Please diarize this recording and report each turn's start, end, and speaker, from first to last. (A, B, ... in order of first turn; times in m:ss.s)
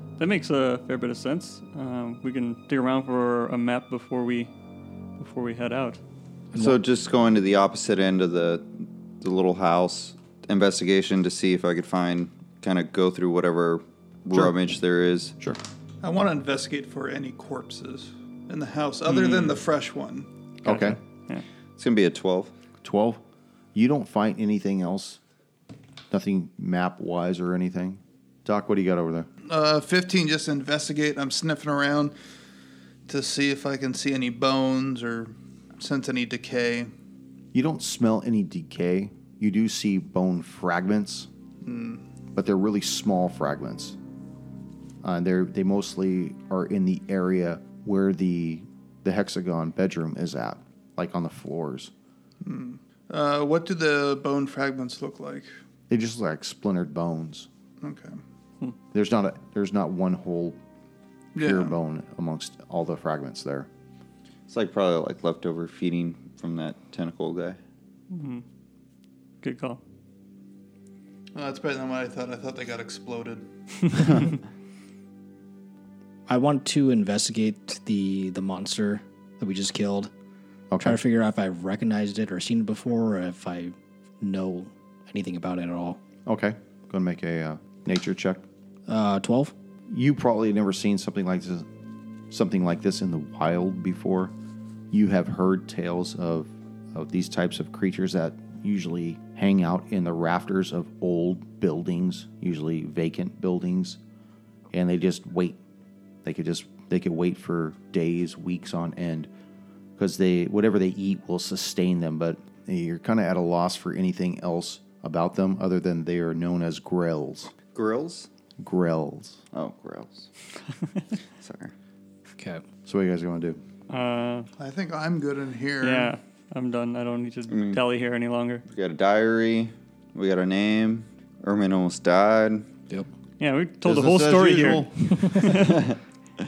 0:00.2-0:04.5 A
0:05.2-0:06.0 A
0:06.5-0:06.8 B
0:06.6-0:15.3 C
0:16.0-0:20.3 D
0:19.1-0:19.6 A
0:20.6-0:21.0 E
0:20.6-0:21.4 A
0:21.8-0:22.5 C
0:22.8-0:23.2 E
0:23.7-0:25.2 E
0:26.1-0:29.3 E
0:29.4-0:32.1 D
0:33.1-0:36.9 D
0:37.5-0:41.3 E
0:41.6-0:42.0 D
0:42.3-0:44.0 E
0:45.0-0:51.9 E
0:52.4-0:55.5 D
0:55.9-0:57.5 E
0:57.8-0:58.2 D
0:58.9-1:00.6 E
1:01.3-1:01.7 D
1:01.4-1:03.7 E
1:04.5-1:07.6 C
1:08.1-1:08.4 A
1:09.4-1:09.8 A
1:11.3-1:14.2 D
1:16.3-1:20.1 B
1:20.7-1:21.0 E
1:20.8-1:26.0 B
1:26.2-1:28.4 E
1:28.9-1:29.5 B
1:29.9-1:31.6 E
1:32.3-1:34.3 E
1:34.9-1:44.0 E
1:44.7-1:45.6 E
1:46.2-1:49.3 E
1:50.0-1:57.5 E
1:57.7-1:58.3 C
1:58.6-1:59.4 E
1:59.5-2:00.3 C
2:01.4-2:01.7 C
2:02.8-2:03.6 E
2:03.9-2:04.5 A
2:04.6-2:06.2 D
2:05.8-2:08.6 A
2:07.5-2:07.8 C
2:08.7-2:12.7 C
2:13.4-2:15.9 A
2:13.8-2:14.9 E
2:15.5-2:16.0 C